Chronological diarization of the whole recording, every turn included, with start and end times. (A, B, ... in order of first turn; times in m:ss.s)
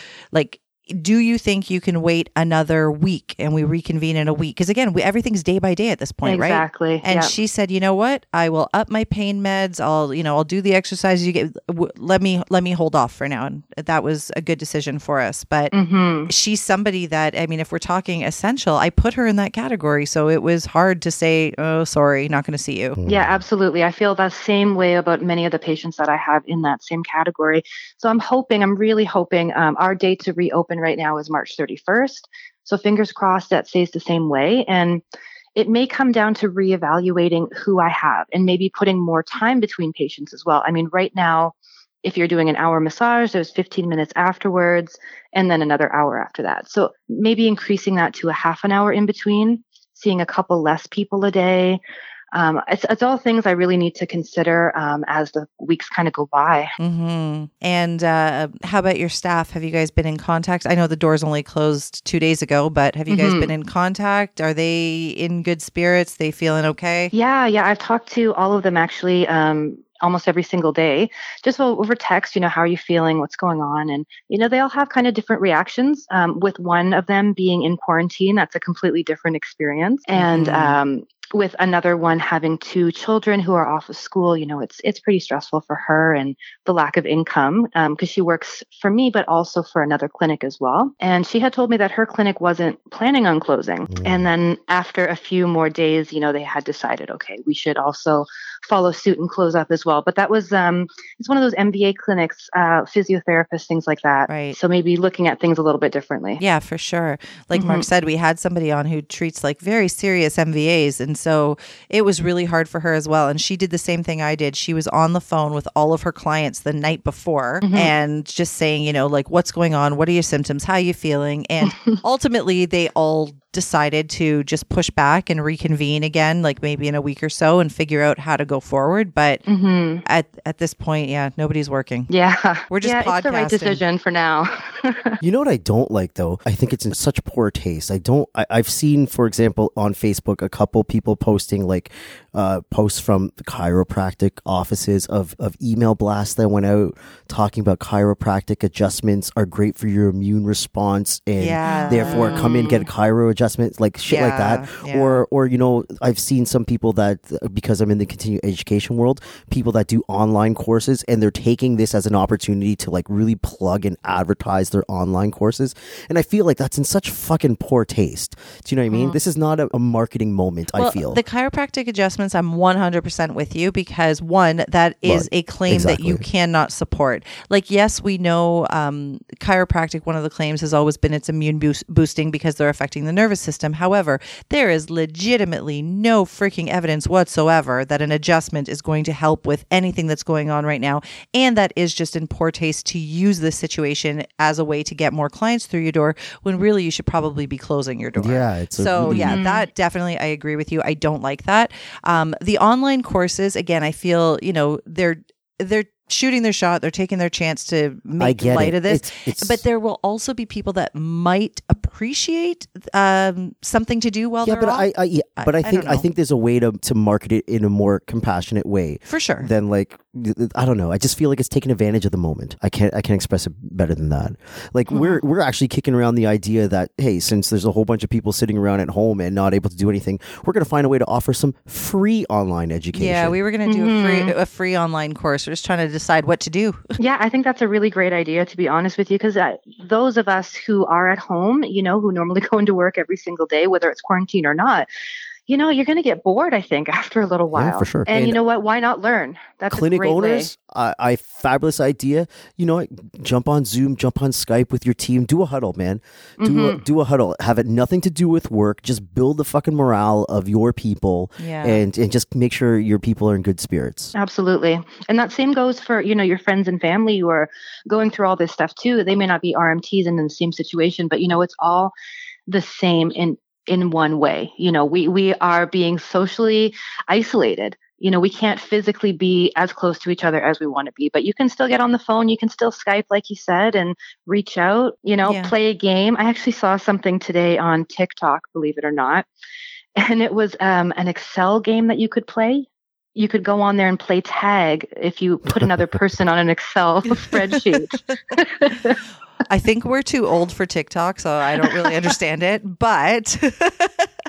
0:00.3-0:15.7 A
0:06.2-0:07.3 B
0:15.7-0:16.3 B
0:16.3-0:23.0 A
0:23.0-0:23.4 C
0:23.0-0:35.0 B
0:35.6-0:51.8 B
0:52.3-0:56.7 B
0:56.8-1:07.1 A
1:03.1-1:03.5 B
1:07.1-1:46.4 B
1:20.2-1:20.8 A
1:33.9-1:34.3 C
1:44.3-1:44.6 A
1:46.4-2:09.4 A
1:47.5-1:47.9 B
1:57.6-1:57.9 B
2:01.6-2:02.0 B
2:09.5-2:10.0 B
2:10.0-2:12.1 A
2:12.1-2:15.2 B
2:12.7-2:13.8 A
2:15.2-2:51.2 C
2:31.4-2:32.4 A
2:31.6-2:32.9 B
2:34.1-2:35.2 A
2:48.9-2:49.2 B
2:50.8-3:34.8 A
2:55.0-2:56.2 C
3:18.2-3:19.4 C
3:19.0-3:19.7 B
3:28.2-3:29.6 C
3:34.4-3:53.4 C
3:35.4-3:36.0 A
3:39.1-3:39.5 A
3:44.9-3:45.2 B
3:53.0-3:56.8 A
3:53.7-3:54.3 B
3:57.0-4:04.9 B
4:05.5-4:10.5 B
4:07.5-4:08.4 C
4:09.7-4:24.1 C
4:16.4-4:16.8 B
4:21.4-4:21.8 A
4:24.1-4:31.9 B
4:32.5-4:49.3 B
4:45.2-4:45.5 A
4:50.0-4:59.0 B
4:57.2-4:57.6 A
4:59.5-5:04.1 A
5:01.6-5:02.1 B